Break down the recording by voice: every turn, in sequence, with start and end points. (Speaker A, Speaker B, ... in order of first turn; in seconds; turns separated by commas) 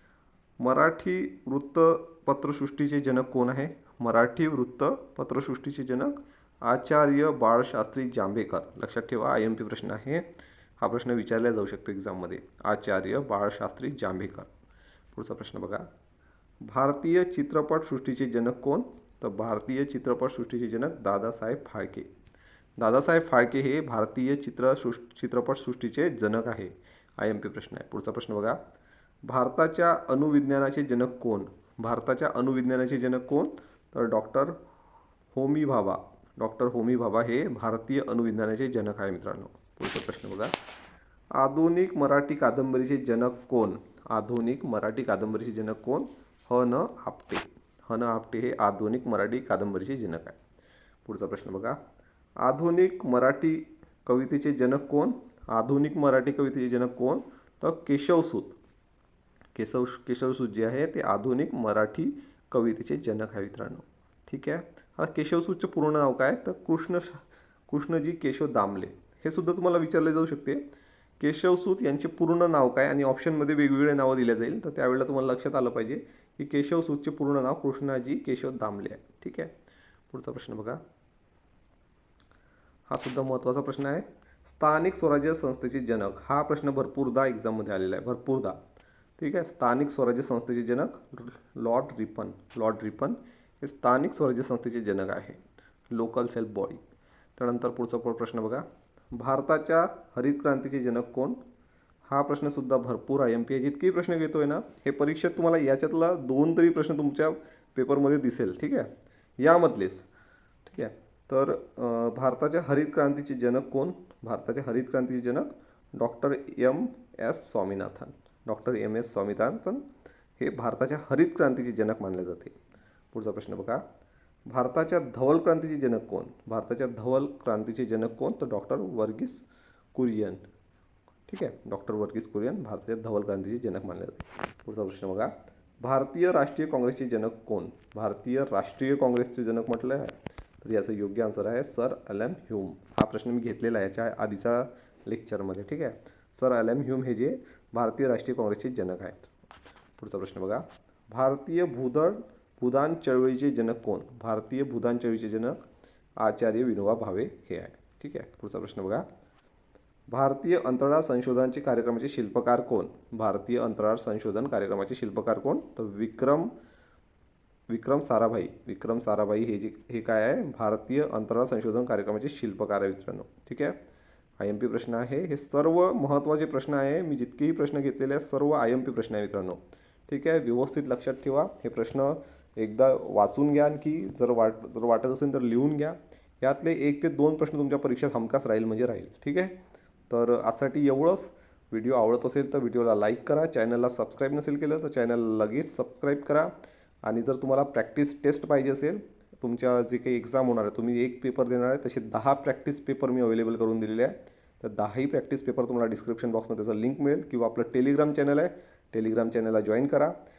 Speaker A: 0.6-10.3, Speaker A: 10.8-14.5, Speaker A: 15.1-15.9, Speaker A: 16.6-22.1, Speaker A: 22.8-28.6, Speaker A: 29.2-34.6, Speaker A: 35.3-40.5, Speaker A: 41.3-50.4, Speaker A: 51.0-51.8, Speaker A: 52.4-58.5, Speaker A: 59.5-70.6, Speaker A: 71.2-79.5, Speaker A: 80.1-80.8, Speaker A: 82.9-88.6, Speaker A: 89.2-95.4, Speaker A: 95.9-96.8, Speaker A: 97.3-101.4, Speaker A: 102.1-110.1, Speaker A: 110.6-119.8, Speaker A: 120.4-122.5, Speaker A: 123.1-123.8, Speaker A: 124.5-130.4, Speaker A: 131.3-149.3, Speaker A: 150.0-155.6, Speaker A: 156.2-159.1, Speaker A: 160.1-166.5, Speaker A: 167.7-173.8, Speaker A: 174.4-189.5, Speaker A: 190.1-196.5, Speaker A: 197.0-210.1